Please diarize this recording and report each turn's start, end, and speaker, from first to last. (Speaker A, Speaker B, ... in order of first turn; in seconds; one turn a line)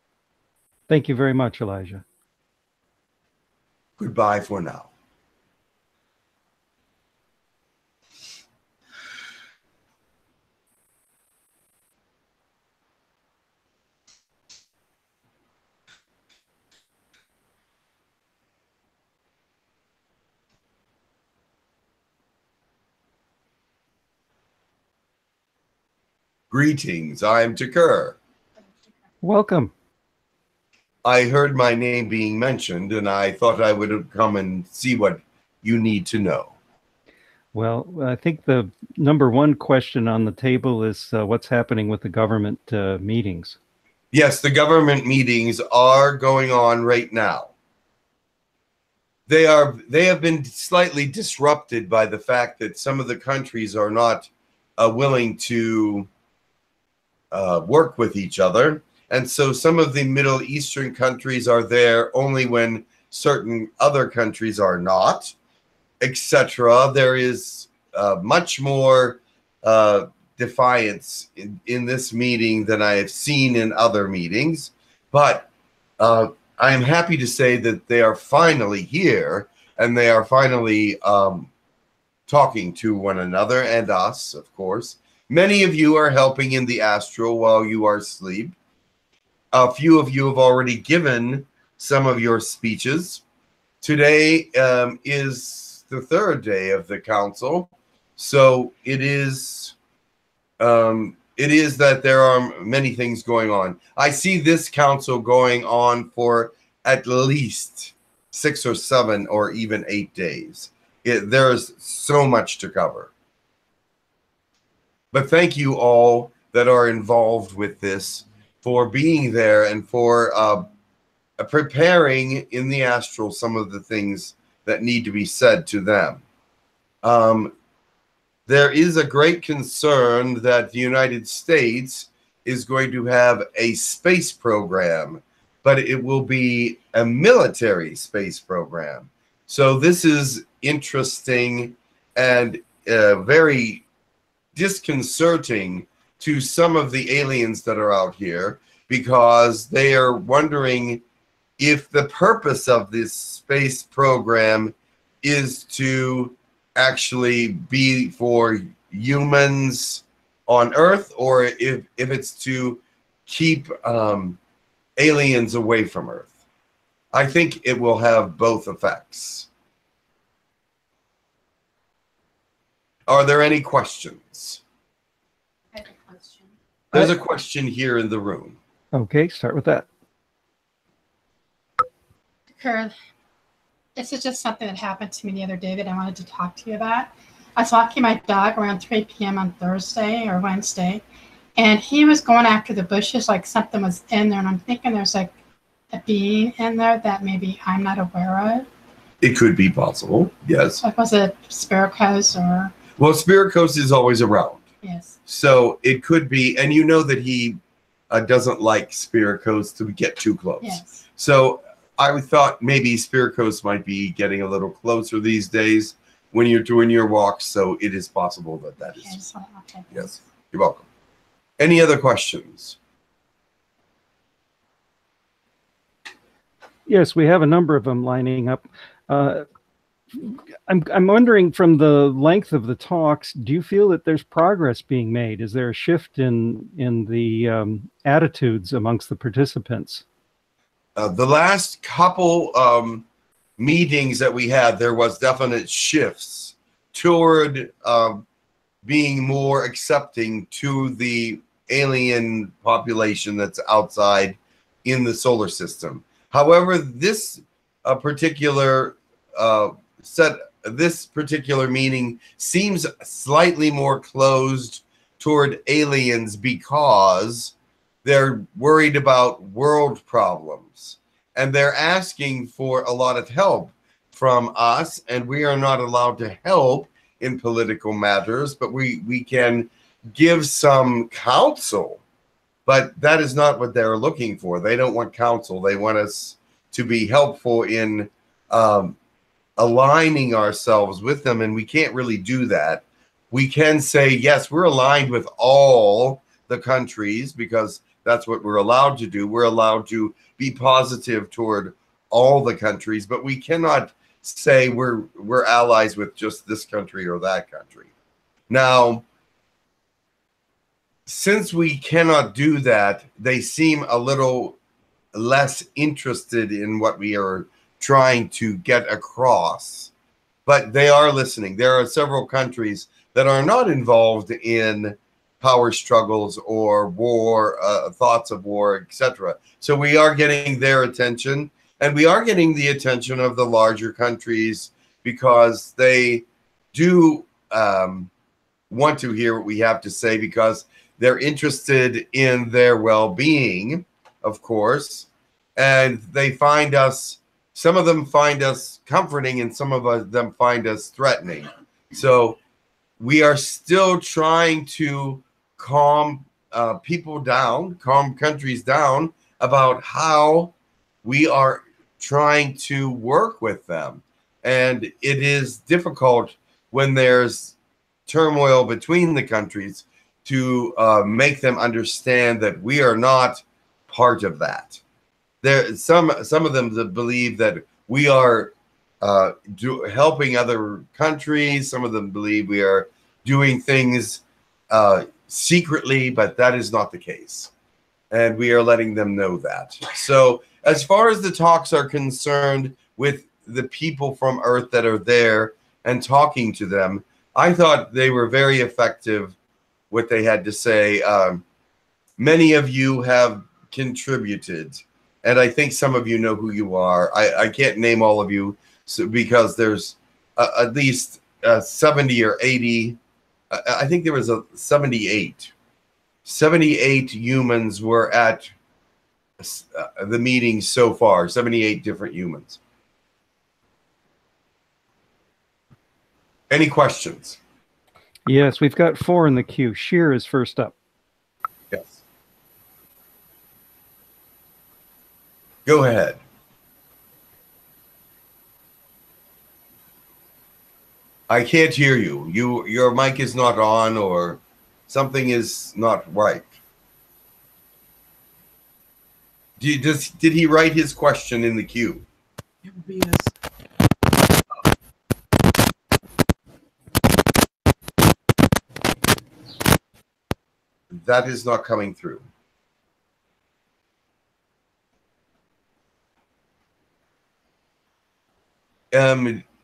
Speaker A: 0.9-2.0
Speaker B: 4.0-4.9
Speaker B: 26.5-28.2
Speaker A: 29.2-29.7
Speaker B: 31.0-36.5
Speaker A: 37.5-43.6
Speaker B: 44.1-47.5
Speaker B: 49.3-56.1
Speaker B: 57.3-65.3
Speaker B: 66.0-81.5
Speaker B: 82.3-88.5
Speaker B: 89.5-93.2
Speaker B: 93.8-99.7
Speaker B: 100.6-113.1
Speaker B: 115.1-120.7
Speaker B: 121.4-126.2
Speaker B: 127.0-127.5
Speaker B: 128.5-143.8
Speaker B: 144.5-151.0
Speaker B: 151.6-164.4
Speaker B: 165.0-166.3
Speaker B: 167.1-169.5
Speaker B: 173.1-174.6
Speaker C: 175.7-176.5
Speaker B: 176.9-178.6
Speaker A: 178.9-179.9
Speaker C: 182.6-182.9
Speaker C: 183.9-191.0
Speaker C: 191.6-195.3
Speaker C: 195.9-198.7
Speaker B: 199.2-200.8
Speaker C: 200.8-202.7
Speaker B: 203.0-204.6
Speaker C: 204.8-205.1
Speaker B: 205.3-207.6
Speaker B: 208.1-219.2
Speaker C: 210.6-210.9
Speaker C: 219.0-220.1
Speaker B: 219.9-220.8
Speaker B: 221.6-222.8
Speaker A: 226.9-229.4
Speaker A: 230.2-240.0
Speaker B: 240.9-243.1
Speaker B: 243.6-248.2
Speaker B: 248.8-282.0
Speaker B: 282.6-288.9
Speaker B: 289.6-307.9
Speaker B: 308.5-309.0
Speaker B: 311.1-314.6
Speaker B: 315.1-319.9
Speaker B: 320.4-338.1
Speaker B: 338.7-352.4
Speaker B: 353.0-367.5
Speaker B: 368.1-374.8
Speaker B: 375.4-387.5
Speaker B: 388.1-399.3
Speaker B: 399.9-401.4
Speaker B: 402.2-413.0
Speaker B: 413.5-415.5
Speaker B: 416.2-418.5
Speaker B: 419.4-422.6
Speaker B: 426.5-427.4
Speaker A: 428.3-430.7
Speaker B: 431.7-432.0
Speaker B: 435.6-436.2
Speaker B: 441.3-446.5
Speaker B: 449.6-452.0
Speaker B: 460.9-462.2
Speaker B: 468.9-469.4